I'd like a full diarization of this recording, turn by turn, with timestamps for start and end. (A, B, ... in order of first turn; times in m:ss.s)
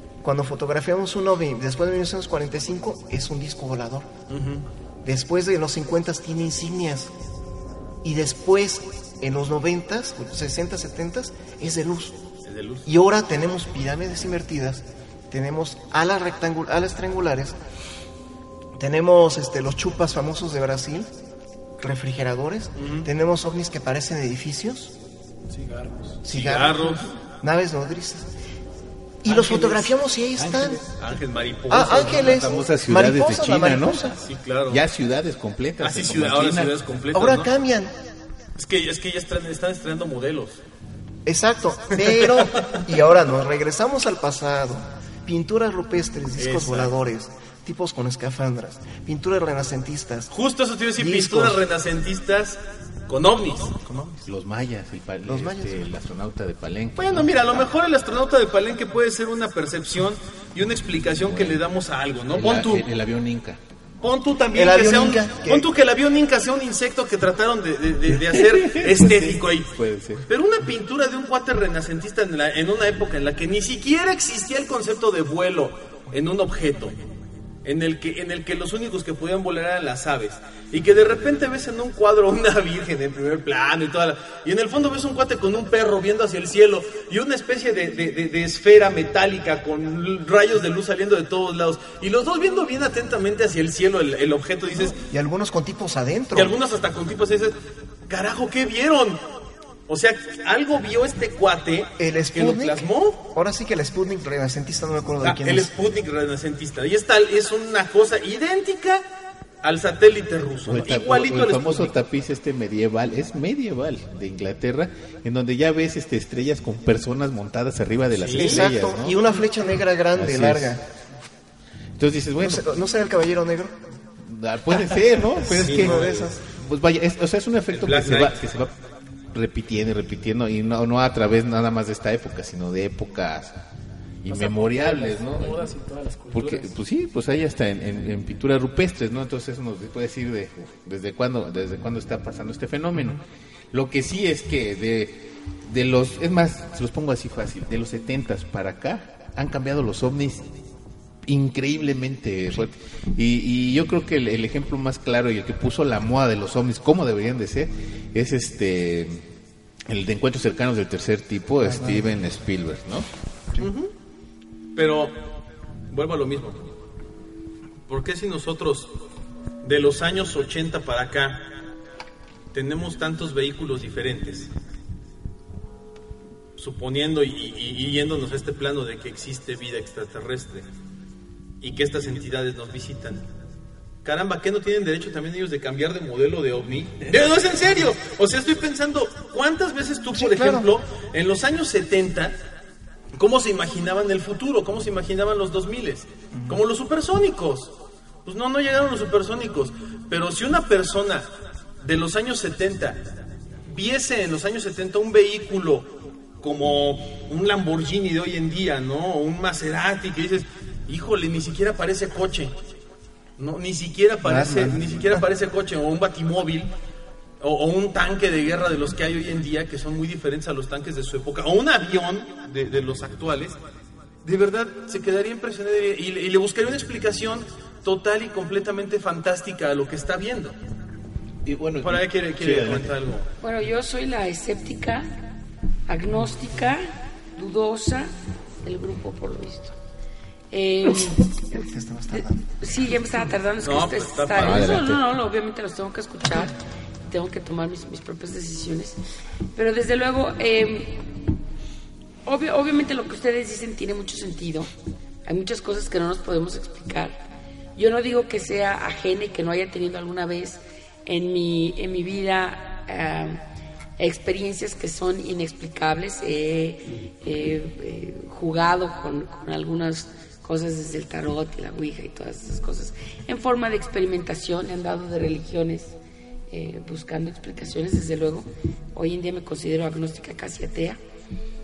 0:00.2-0:04.1 A
0:04.3-0:04.7 B
0:05.0-0:07.1 A
0:08.0-0:12.2 A
0:12.4-0:12.9 B
0:12.9-0:17.6 A
0:18.8-0:21.1 A
0:21.8-0:24.9 A
0:22.8-0:23.1 B
0:25.5-0:26.2 C
0:26.2-0:28.3 A
0:26.3-0:27.1 B
0:29.2-0:30.8 A
0:29.3-0:29.9 B
0:30.4-0:30.9 C
0:31.0-0:32.6 B
0:31.7-0:34.2 A
0:32.2-0:36.8 D
0:34.2-0:34.8 B
0:35.8-0:37.5 B
0:37.1-0:37.9 A
0:38.6-0:40.6 B
0:41.2-0:50.3 A
0:42.0-0:42.8 B
0:46.4-0:46.9 B
0:50.3-0:53.8 B
0:51.0-0:51.6 A
0:53.9-0:54.2 A
0:54.2-0:57.3 D
0:55.3-0:55.9 A
0:57.0-1:02.8 B
1:01.2-1:01.6 D
1:02.3-1:03.6 D
1:04.0-1:09.7 B
1:04.5-1:05.7 A
1:08.1-1:10.2 D
1:10.3-1:17.0 B
1:17.6-1:35.0 B
1:35.1-1:36.5 A
1:36.4-1:37.6 B
1:38.1-1:39.2 B
1:39.9-1:43.2 B
1:42.0-1:45.7 A
1:45.2-1:49.0 B
1:49.6-1:51.9 B
1:50.7-1:59.2 D
1:58.2-1:58.7 B
1:58.3-2:00.8 A
2:00.2-2:00.8 D
2:02.0-2:02.8 D
2:02.4-2:03.8 A
2:04.2-2:08.7 D
2:05.5-2:06.4 A
2:05.6-2:06.0 B
2:07.7-2:08.6 B
2:09.3-2:13.6 D
2:14.2-2:15.7 D
2:14.3-2:16.7 C
2:16.3-2:23.2 D
2:23.7-2:30.5 D
2:31.3-2:39.2 D
2:39.9-2:43.1 D
2:41.6-2:42.1 A
2:43.6-2:43.9 B
2:44.8-2:45.1 B
2:45.9-2:46.6 B
2:47.9-2:48.9 B
2:49.6-2:51.5 B
2:52.5-2:54.5 B
2:56.6-3:00.7 B
3:01.6-3:03.2 B
3:04.0-3:12.4 B
3:10.1-3:10.7 A
3:13.2-3:17.7 B
3:16.3-3:16.6 A
3:18.3-3:21.3 B
3:21.8-3:23.0 B
3:23.7-3:32.6 B
3:33.4-3:36.7 B
3:34.2-3:35.2 A
3:37.4-3:43.6 B
3:44.2-3:50.6 B
3:51.4-3:53.0 D
3:51.8-3:53.3 B
3:53.4-3:55.1 E
3:55.9-3:58.1 E
3:58.6-3:59.7 E
4:00.5-4:01.6 E
4:01.6-4:02.5 A
4:02.1-4:06.5 E
4:03.6-4:04.8 B
4:04.4-4:05.0 D
4:07.1-4:09.0 E
4:09.6-4:11.0 E
4:12.2-4:14.7 E
4:15.3-4:17.2 E
4:17.8-4:23.4 E
4:24.0-4:36.0 E
4:36.5-4:41.0 E